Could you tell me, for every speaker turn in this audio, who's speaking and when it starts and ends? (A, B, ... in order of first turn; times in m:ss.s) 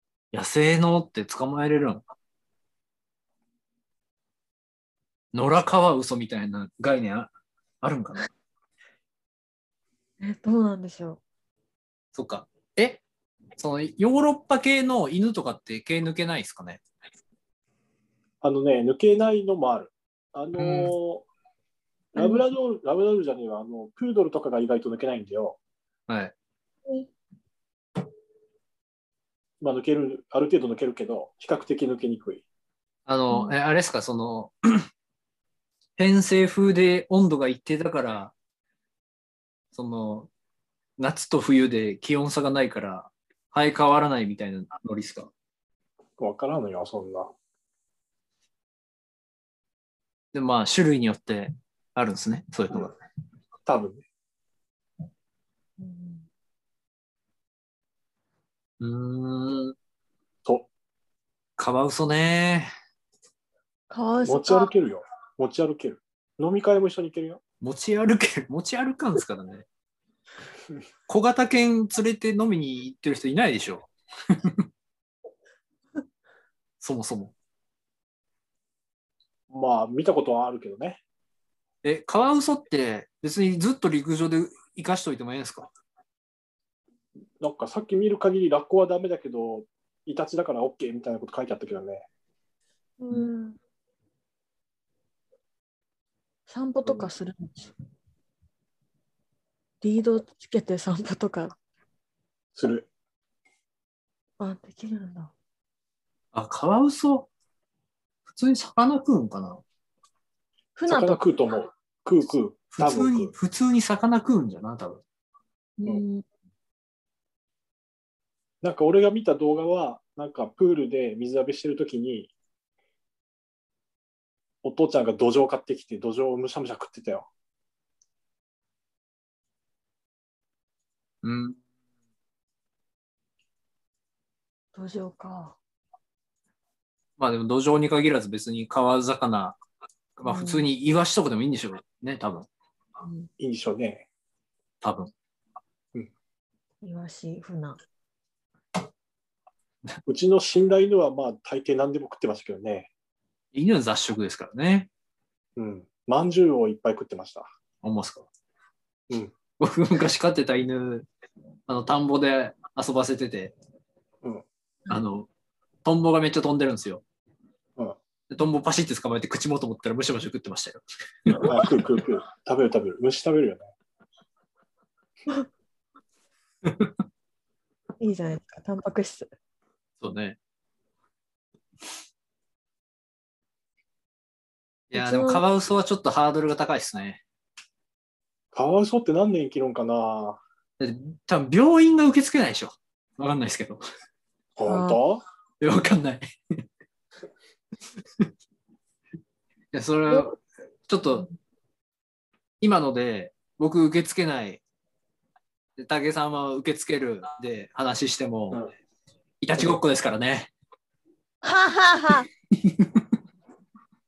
0:00.3-0:02.0 A
0:05.3-0:07.3 A
0:07.8-0:08.3 A
0:10.2-0:11.2 B
0:12.1-0:13.0 A
0:13.6-0:16.8 A
0:18.4-0:21.3 C
0:20.6-0:20.9 A
0:22.2-0:25.6 C
0:22.2-0:22.4 B
0:26.1-0:26.3 A
0:29.6-0:32.4 C
0:33.1-0:34.9 A
0:36.0-0:38.3 A
0:39.7-0:40.3 A
0:41.0-0:45.3 A
0:46.2-0:47.3 C
0:50.3-0:53.0 A
0:53.7-0:54.0 C
0:55.8-0:56.3 B
0:58.8-0:59.7 A
1:00.4-1:00.7 C
1:01.6-1:02.7 A
1:03.9-1:04.7 B
1:04.2-1:07.4 C
1:07.6-1:09.7 A
1:11.1-1:14.6 A
1:16.8-1:17.3 A
1:19.5-1:21.0 C
1:21.8-1:25.7 A
1:27.4-1:32.1 C
1:33.0-1:33.6 B
1:36.5-1:37.7 B
1:39.8-1:41.6 B
1:42.6-1:42.9 C
1:44.4-1:45.3 B
1:46.3-1:47.3 A
1:48.3-1:49.6 A
1:50.8-1:51.2 B
1:50.9-1:53.3 C
1:52.7-1:55.0 A
1:55.8-1:56.3 B
1:58.6-2:02.3 C
2:04.6-2:07.3 C
2:11.2-2:11.6 A
2:14.8-2:15.6 B
2:17.2-2:19.6 A
2:20.2-2:22.5 A
2:20.2-2:20.7 B
2:23.0-2:23.3 B
2:23.4-2:24.1 C
2:24.8-2:25.1 A
2:26.8-2:27.8 B
2:30.1-2:32.9 C
2:33.5-2:34.9 A
2:35.6-2:37.5 C
2:37.8-2:38.3 A
2:39.6-2:41.1 A
2:41.7-2:43.6 A
2:44.9-2:45.3 A
2:45.8-2:47.0 A
2:48.3-2:51.6 A
2:51.4-2:53.7 C
2:56.6-2:56.9 A
2:58.0-2:59.3 B
3:00.0-3:00.4 A
3:04.9-3:07.2 A
3:04.9-3:05.4 B
3:08.5-3:10.4 C
3:10.8-3:13.8 A
3:14.6-3:15.2 C
3:14.7-3:15.0 B
3:15.6-3:16.2 A
3:19.7-3:20.4 A
3:20.9-3:21.3 A
3:22.6-3:24.6 A
3:25.8-3:28.6 A
3:29.4-3:30.5 A
3:31.4-3:32.3 B